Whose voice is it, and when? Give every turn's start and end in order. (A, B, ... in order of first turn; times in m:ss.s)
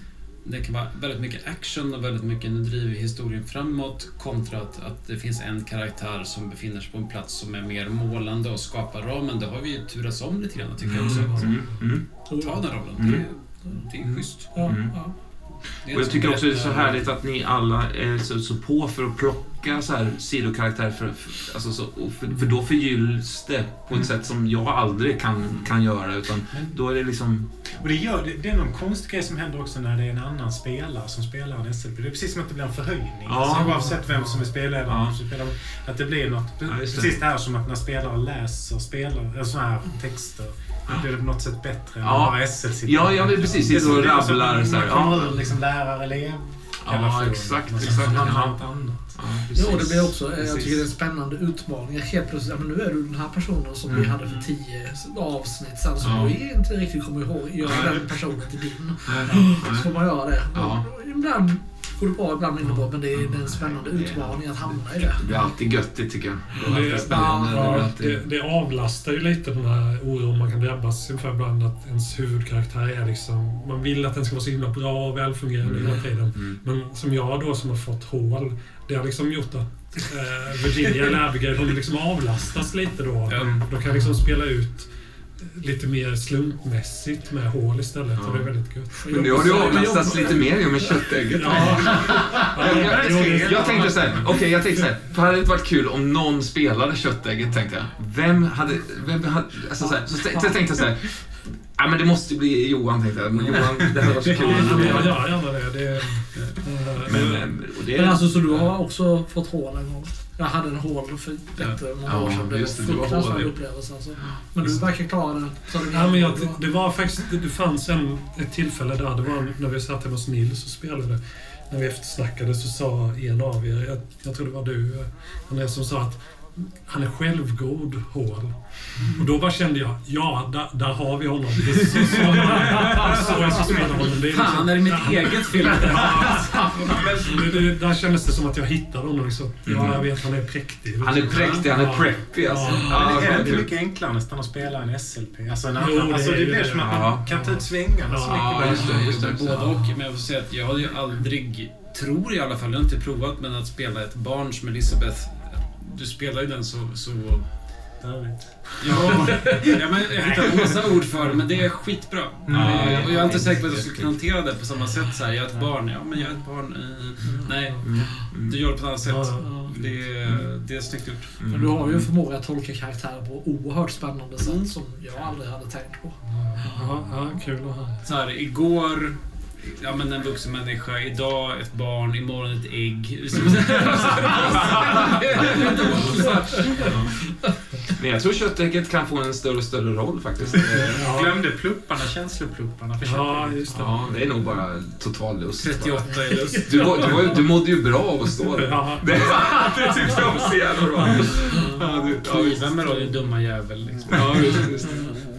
0:00.4-0:15.0 A
0:10.8-0:12.3 B
0:11.0-0:11.8 C
0:12.2-0:13.0 D
0:13.0-0:13.2 B
0:14.0-0:27.5 B
0:14.5-0:15.2 D
0:15.8-0:17.0 A
0:27.6-0:49.8 E
0:33.2-0:33.9 B
0:34.8-0:35.1 B
0:36.6-0:37.2 B
0:42.0-0:45.4 B
0:46.8-0:48.6 B
0:49.1-0:50.8 B
0:49.5-1:05.3 D
0:53.9-0:54.2 B
0:56.0-0:56.3 B
0:57.6-0:58.1 B
0:59.0-0:59.9 B
1:00.5-1:00.9 B
1:03.1-1:08.2 B
1:06.6-1:29.8 C
1:06.9-1:07.8 D
1:15.6-1:16.6 B
1:23.3-1:23.6 A
1:28.2-1:45.3 B
1:28.9-1:30.9 D
1:31.3-1:34.2 C
1:31.9-1:34.6 E
1:39.8-1:40.6 D
1:43.8-1:44.8 E
1:44.3-1:47.5 C
1:44.3-1:45.2 A
1:47.0-1:48.4 B
1:47.9-1:56.6 D
1:52.0-1:53.6 B
1:55.9-2:23.6 C
2:12.5-2:13.4 B
2:12.8-2:17.0 A
2:12.9-2:14.0 E
2:14.6-2:17.0 B
2:15.7-2:17.6 E
2:19.6-2:20.0 B
2:21.0-2:23.7 B
2:22.9-2:29.0 E
2:25.8-2:30.0 C
2:26.8-2:27.4 B
2:28.2-2:29.5 B
2:28.4-2:37.6 A
2:38.0-2:41.0 E
2:38.8-2:51.4 A
2:42.4-2:43.1 E
2:42.5-2:44.1 B
2:43.0-2:43.4 D
2:47.2-2:48.1 D
2:47.7-2:48.2 C
2:47.8-2:48.6 B
2:49.0-2:49.8 C
2:49.4-2:49.8 D
2:51.4-2:52.1 B
2:51.5-2:56.8 D
2:54.4-2:55.3 A
2:56.3-2:58.0 C
2:58.0-3:07.1 A
3:03.9-3:07.2 B
3:06.5-3:06.9 C
3:07.9-3:11.1 B
3:10.5-3:13.9 E
3:10.8-3:11.4 C
3:13.0-3:14.1 C
3:13.7-3:23.0 B
3:15.6-3:17.4 A
3:16.7-3:17.4 C
3:18.5-3:21.3 C
3:21.4-3:25.3 A
3:24.1-3:25.0 B